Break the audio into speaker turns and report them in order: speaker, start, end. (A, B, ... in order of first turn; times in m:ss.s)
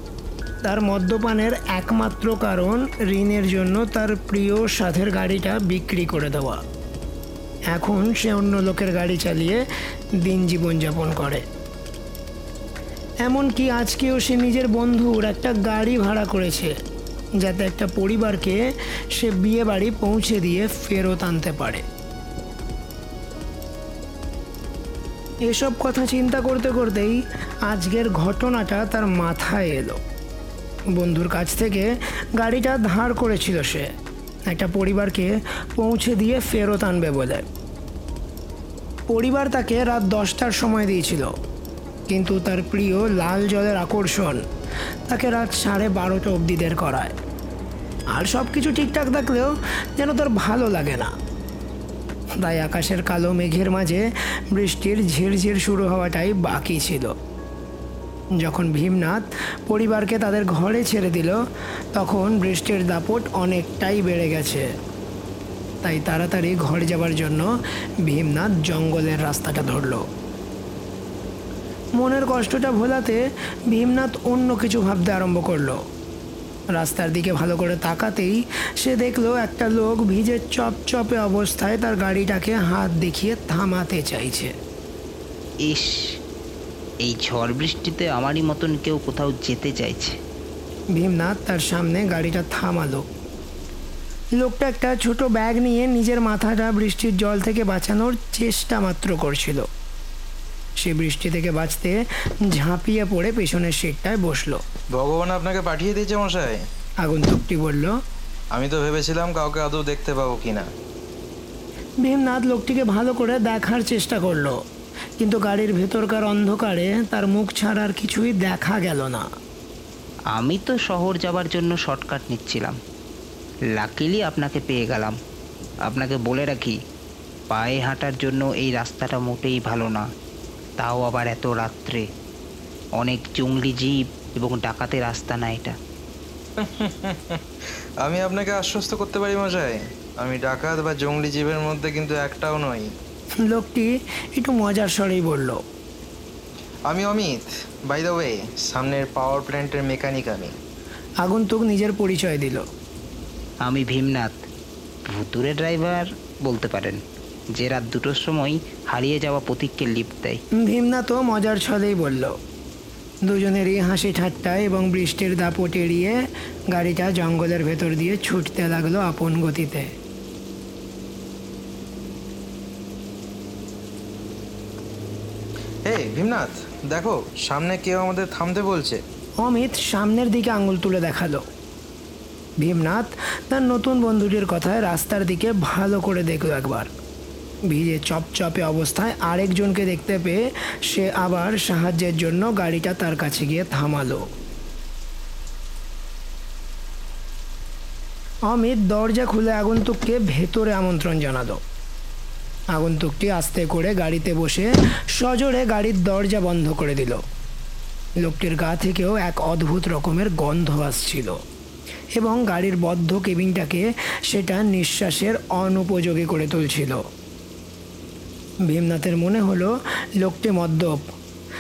0:00.6-0:06.6 A
0:07.7-0:09.6 A
0:10.2-0:11.4 A
0:13.2-0:16.7 A
0:17.4-0:18.6 A
0:19.1-0:21.8 A
0:25.5-0:30.0 A
0:31.0-0:33.9 A
0:34.5-0:37.4 A
0:39.1-0:41.3 A
0:42.1-0:44.4 A
0:45.1-0:47.2 A
0:48.1-0:51.1 A
0:52.4-0:57.1 A
0:58.4-1:01.4 A
1:01.9-1:04.7 A
1:05.8-1:07.5 A
1:08.0-1:10.1 A
1:12.0-1:15.8 A
1:16.7-1:24.5 A
1:25.6-1:26.2 B
1:27.0-1:30.2 B
1:30.9-1:33.1 A
1:34.4-1:39.7 A
1:40.8-1:44.6 A
1:44.9-1:46.6 C
1:47.0-1:48.0 A
1:48.5-1:50.7 C
1:52.0-1:54.6 A
1:55.2-1:59.2 A
2:00.3-2:02.8 B
2:03.8-2:05.2 B
2:05.9-2:06.8 B
2:07.5-2:10.0 B
2:10.8-2:12.1 B
2:13.0-2:15.8 B
2:16.6-2:17.4 C
2:18.0-2:22.9 C
2:23.4-2:25.6 A
2:26.9-2:30.5 C
2:31.2-2:32.7 A
2:33.6-2:34.4 B
2:35.1-2:37.0 B
2:37.5-2:40.4 B
2:40.6-2:42.4 A
2:43.2-2:46.2 A
2:46.7-2:49.9 A
2:55.9-2:59.0 C
2:59.4-3:01.4 A
3:02.6-3:06.9 A
3:07.7-3:14.2 A
3:18.5-3:21.6 A
3:22.7-3:27.2 A
3:28.2-3:31.4 A
3:32.1-3:37.0 A
3:38.7-3:41.0 A